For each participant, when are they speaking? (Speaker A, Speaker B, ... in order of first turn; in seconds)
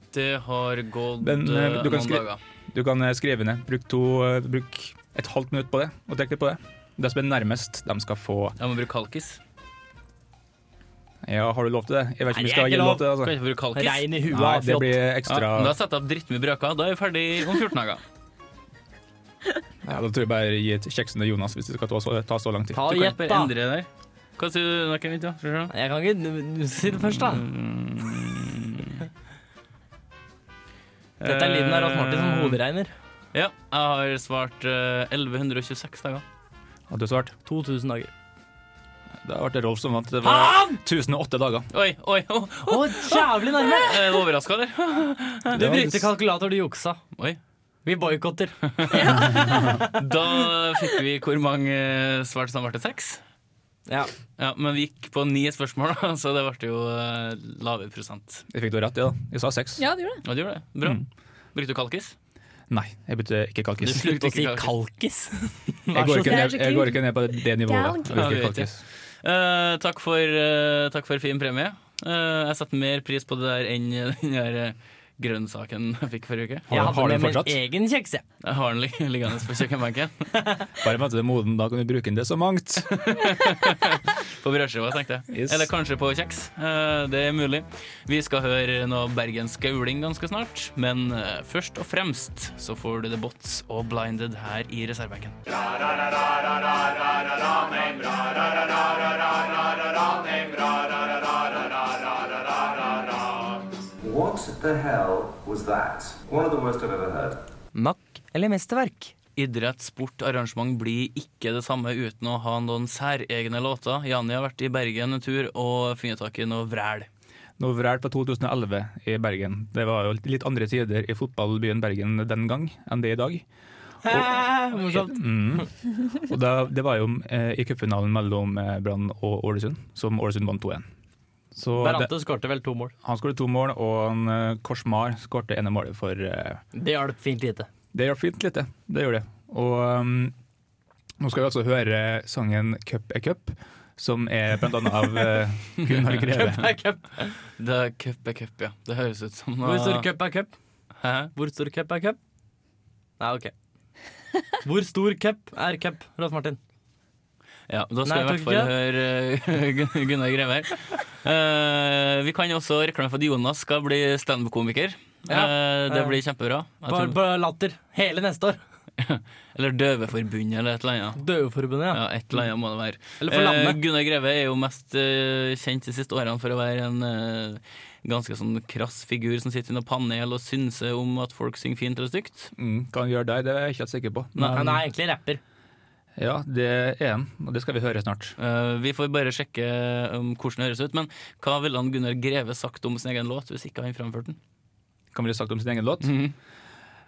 Speaker A: 0.1-2.4, 8.6-9.4, 13.2-14.1, 15.3-18.0, 22.9-25.7, 27.0-29.0, 31.2-32.6, 33.3-36.2, 41.7-45.6, 48.8-49.2, 50.0-53.2, 54.4-58.4, 60.2-61.0, 61.5-62.1, 63.9-64.7, 68.1-68.7, 69.2-76.9, 78.4-80.3, 82.9-95.4, 109.3-117.1, 147.6-150.1, 151.0-151.3, 157.7-167.2, 169.0-171.2, 171.9-182.5, 184.4-184.8, 188.4-194.4, 196.0-196.3
Speaker B: 1.2-8.6, 11.2-13.3, 14.3-15.8, 19.8-22.8, 36.9-37.3, 39.2-41.7, 45.5-46.1, 49.2-49.8, 58.5-59.8, 62.7-64.1, 65.9-68.8, 76.7-77.6, 80.8-82.9, 85.3-85.7, 117.6-123.4, 124.0-130.8, 131.5-132.1, 133.0-136.6, 137.9-140.3, 141.2-146.7, 182.6-184.8, 186.2-188.3, 195.1-196.1
Speaker C: 12.3-13.1, 13.7-15.0, 22.7-23.5, 25.7-27.4, 31.2-32.9, 37.5-38.1, 40.2-40.8, 42.7-44.0, 45.5-47.0, 47.8-50.0, 63.8-66.5, 76.7-78.2, 107.7-109.1, 124.0-125.7, 131.8-132.9, 136.7-137.7, 146.3-147.3, 149.6-150.5, 151.3-152.2, 153.2-153.5, 154.6-156.6, 158.1-158.7, 165.3-166.1, 166.9-168.6, 171.2-172.0, 173.2-173.8, 184.5-185.4
Speaker D: 48.9-49.8, 59.8-60.2, 66.0-68.3
Speaker E: 104.0-107.4